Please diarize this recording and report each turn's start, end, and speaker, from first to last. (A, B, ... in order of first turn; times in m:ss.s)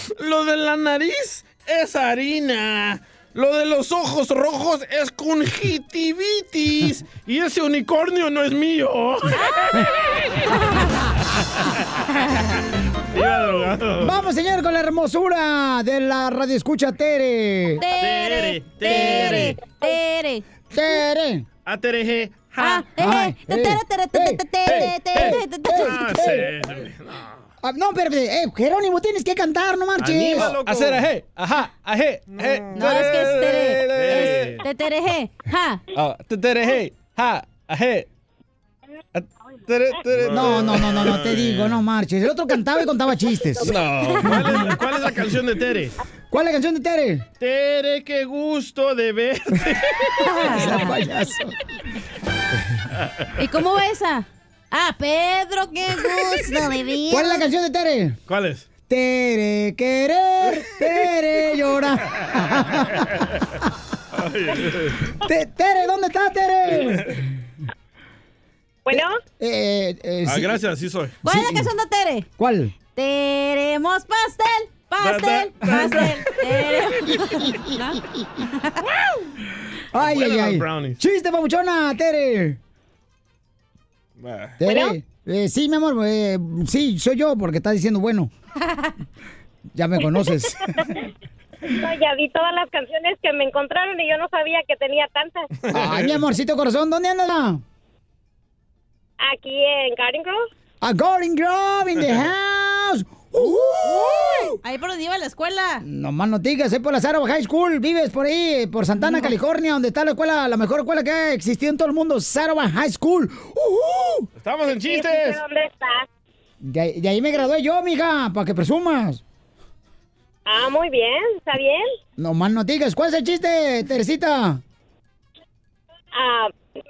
0:00.2-0:09.4 A
0:09.3-0:09.6 B
0:10.5-0:10.8 B
0:13.1-0:14.2 A
0:14.0-0:17.8 C
0:17.8-0:20.4 B
0:18.0-0:19.6 A
0:18.9-0:19.6 C
0:20.7-0:21.5 C
0:21.7-0:22.9 A
0:22.6-0:26.3 B
0:23.0-0:26.5 C
0:24.7-0:27.4 A
0:27.6-0:30.6 C
0:30.0-0:31.1 A
0:30.2-0:34.5 D
0:32.3-0:34.6 A
0:32.7-0:35.8 B
0:35.9-0:38.1 D
0:39.7-0:41.8 A
0:39.8-0:40.4 D
0:40.3-0:44.6 C
0:43.6-0:46.0 A
0:44.0-0:44.7 B
0:46.3-0:47.2 C
0:47.4-0:50.8 A
0:50.2-0:51.0 B
0:50.5-0:51.6 C
0:52.5-0:52.8 C
0:53.4-0:57.4 B
0:57.1-0:58.2 C
0:58.3-0:58.7 A
0:58.9-1:02.9 C
1:04.1-1:05.1 A
1:05.2-1:07.3 C
1:08.9-1:09.2 E
1:08.9-1:10.6 C
1:10.3-1:11.2 A
1:11.2-1:12.3 B
1:11.2-1:11.7 C
1:12.4-1:12.8 C
1:12.9-1:18.0 B
1:15.0-1:16.8 A
1:19.9-1:22.6 C
1:20.0-1:21.0 A
1:24.2-1:24.6 A
1:24.6-1:28.3 C
1:24.6-1:25.0 B
1:29.8-1:30.6 C
1:31.8-1:35.5 E
1:35.6-1:36.2 A
1:35.7-1:37.6 C
1:39.2-1:40.4 E
1:40.8-1:44.6 C
1:43.4-1:45.8 B
1:45.8-1:54.3 C
1:49.0-1:49.3 B
1:54.4-1:55.4 A
1:54.8-1:56.1 E
1:56.6-1:59.2 C
2:00.5-2:01.9 E
2:02.2-2:04.6 C
2:06.1-2:06.5 E